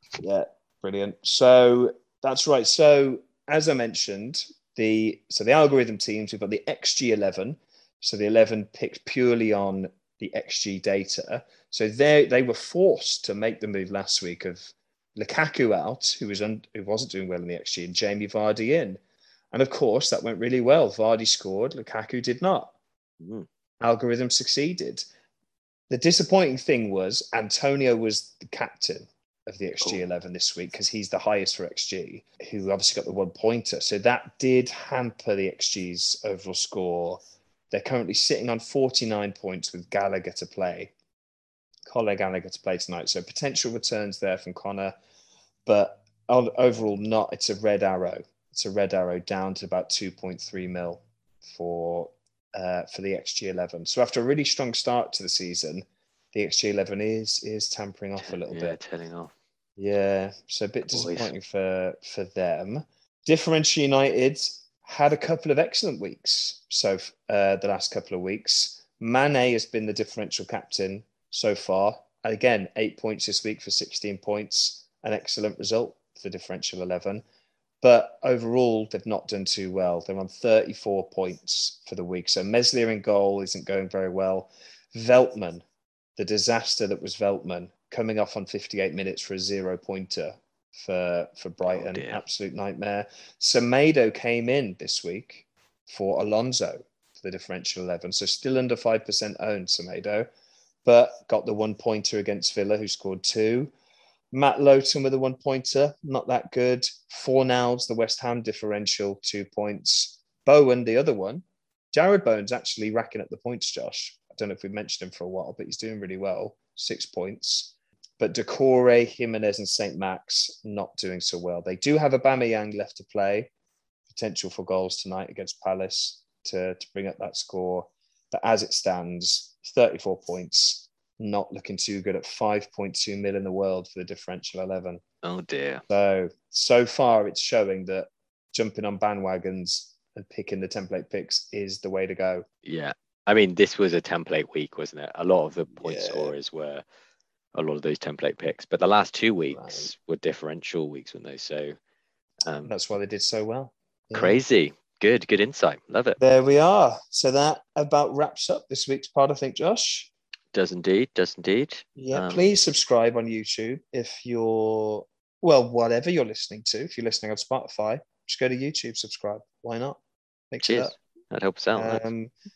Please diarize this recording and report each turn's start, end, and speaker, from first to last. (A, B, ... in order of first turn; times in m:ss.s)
0:00.2-0:19.0 A
0:19.5-0:22.7 A
0:23.2-0:23.5 B
0:23.8-0:25.0 A
0:25.9-0:40.9 A
0:41.9-0:45.0 A
0:45.7-0:58.8 A
0:58.2-0:59.3 B
0:59.8-1:17.2 A
1:00.9-1:01.3 B
1:17.8-1:25.6 A
1:26.2-1:40.3 A
1:31.6-1:32.2 B
1:40.8-1:43.7 A
1:44.3-2:03.5 A
2:04.1-2:15.0 A
2:15.2-2:15.8 B
2:15.9-2:22.4 A
2:22.6-2:26.8 B
2:25.8-2:26.4 A
2:27.6-2:31.8 B
2:29.5-2:29.9 A
2:32.4-2:32.8 B
2:32.6-2:34.4 A
2:34.1-2:36.2 B
2:36.2-2:40.1 A
2:40.5-2:42.5 B
2:42.0-2:50.0 A
2:50.5-2:51.0 A
2:50.6-2:52.0 B
2:51.8-2:52.3 A